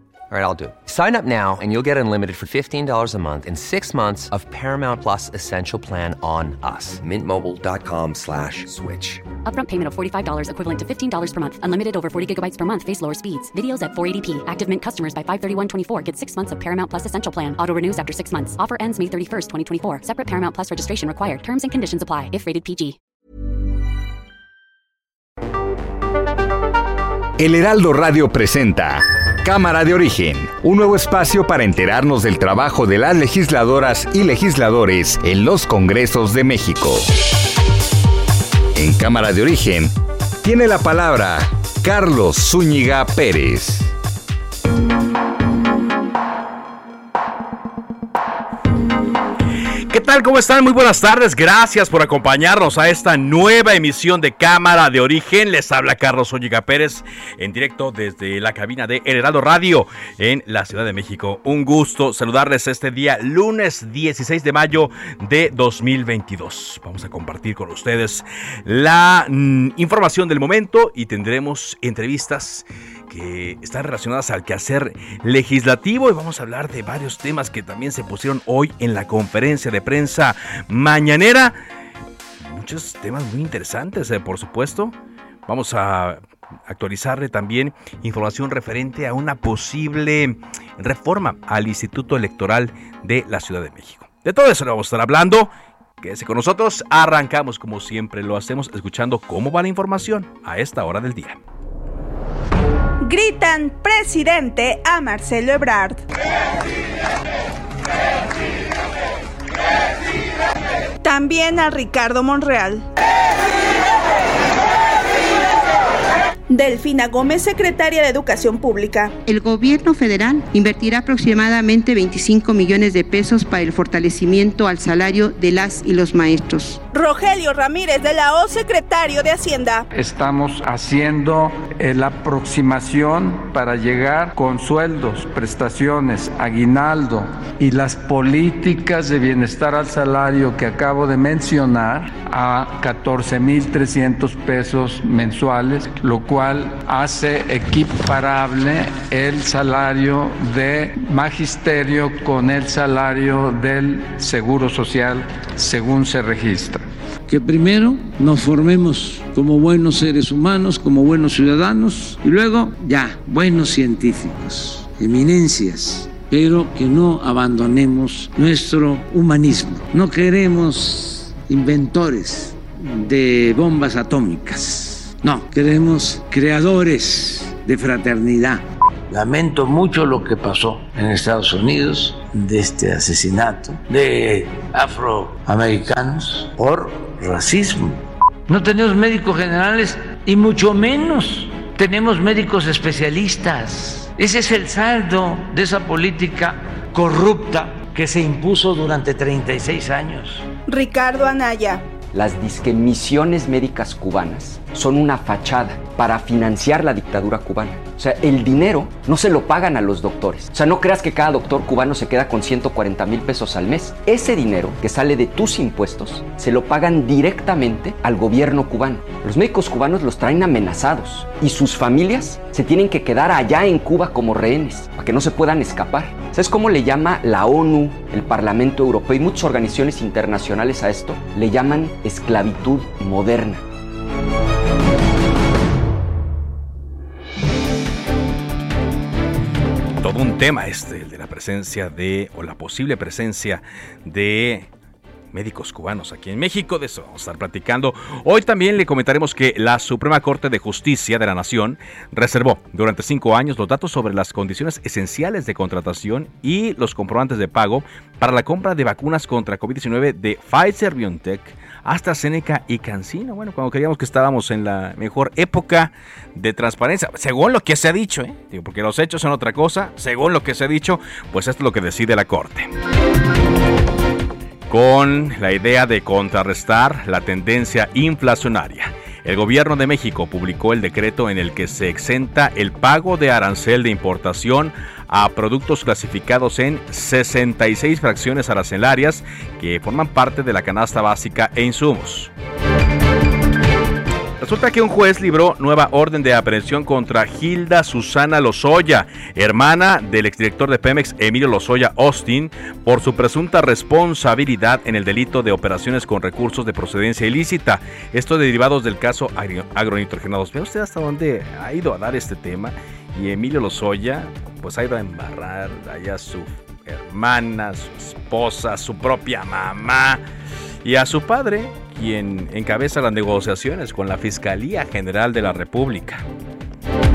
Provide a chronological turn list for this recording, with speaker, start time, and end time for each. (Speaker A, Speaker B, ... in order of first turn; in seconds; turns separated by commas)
Speaker A: 0.3-9.3, Speaker B: 9.4-23.0, Speaker C: 27.4-37.0, Speaker C: 38.7-43.9, Speaker D: 49.9-81.6, Speaker D: 82.4-84.9, Speaker D: 85.5-101.4, Speaker E: 103.0-106.0, Speaker E: 111.0-112.8, Speaker E: 116.5-119.1, Speaker F: 119.2-126.8, Speaker E: 126.9-129.8, Speaker G: 129.9-156.8, Speaker H: 157.3-200.5, Speaker E: 200.7-201.8, Speaker I: 202.1-233.6, Speaker D: 240.0-244.7, Speaker D: 245.3-272.7, Speaker D: 274.7-292.3, Speaker D: 294.4-320.2, Speaker D: 320.8-326.2